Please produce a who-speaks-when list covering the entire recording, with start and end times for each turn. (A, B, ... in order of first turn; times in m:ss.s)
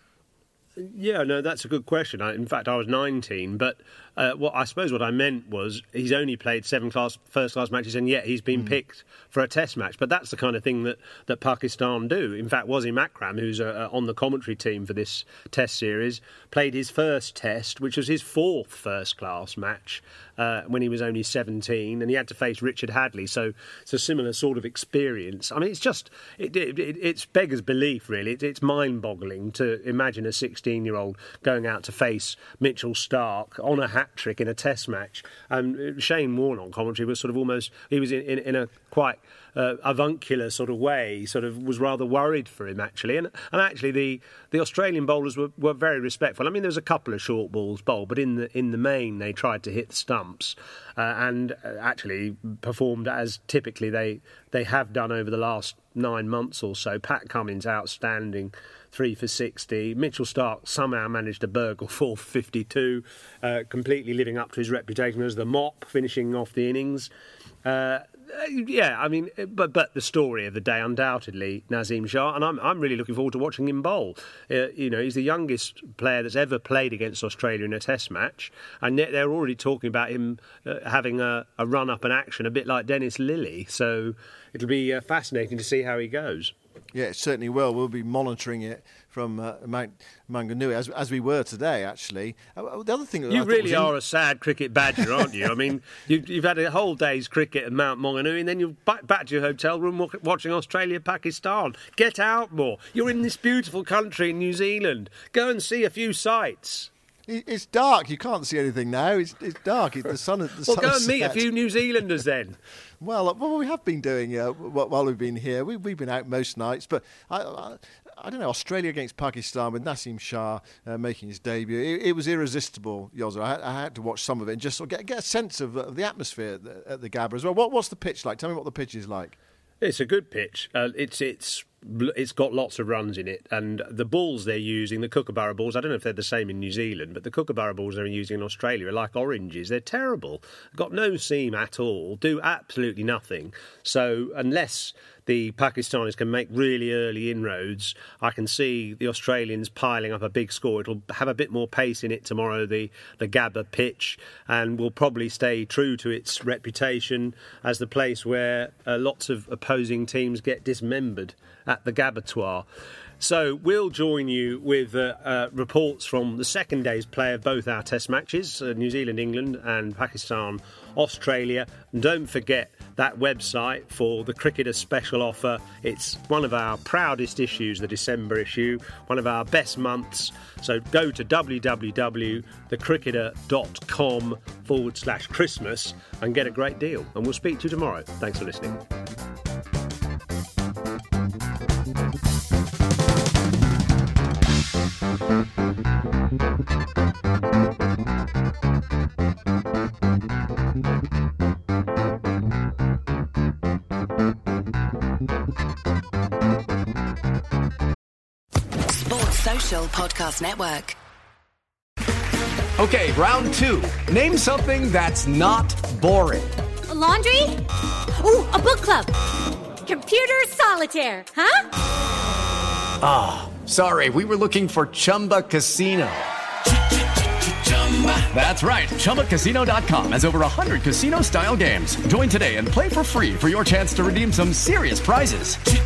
0:00.8-1:07.1 A
1:07.6-1:26.5 A
1:26.9-1:33.9 B
1:33.3-1:46.9 A
1:47.3-1:51.5 B
1:50.6-1:52.6 A
1:53.0-2:09.4 B
2:09.8-2:42.7 A
2:43.2-3:08.8 A
3:29.0-3:31.0 C
3:32.8-3:36.6 D
3:36.9-3:37.6 E
3:38.2-3:39.1 E
3:39.8-3:41.6 E
3:43.0-3:46.3 D
3:47.5-3:55.6 D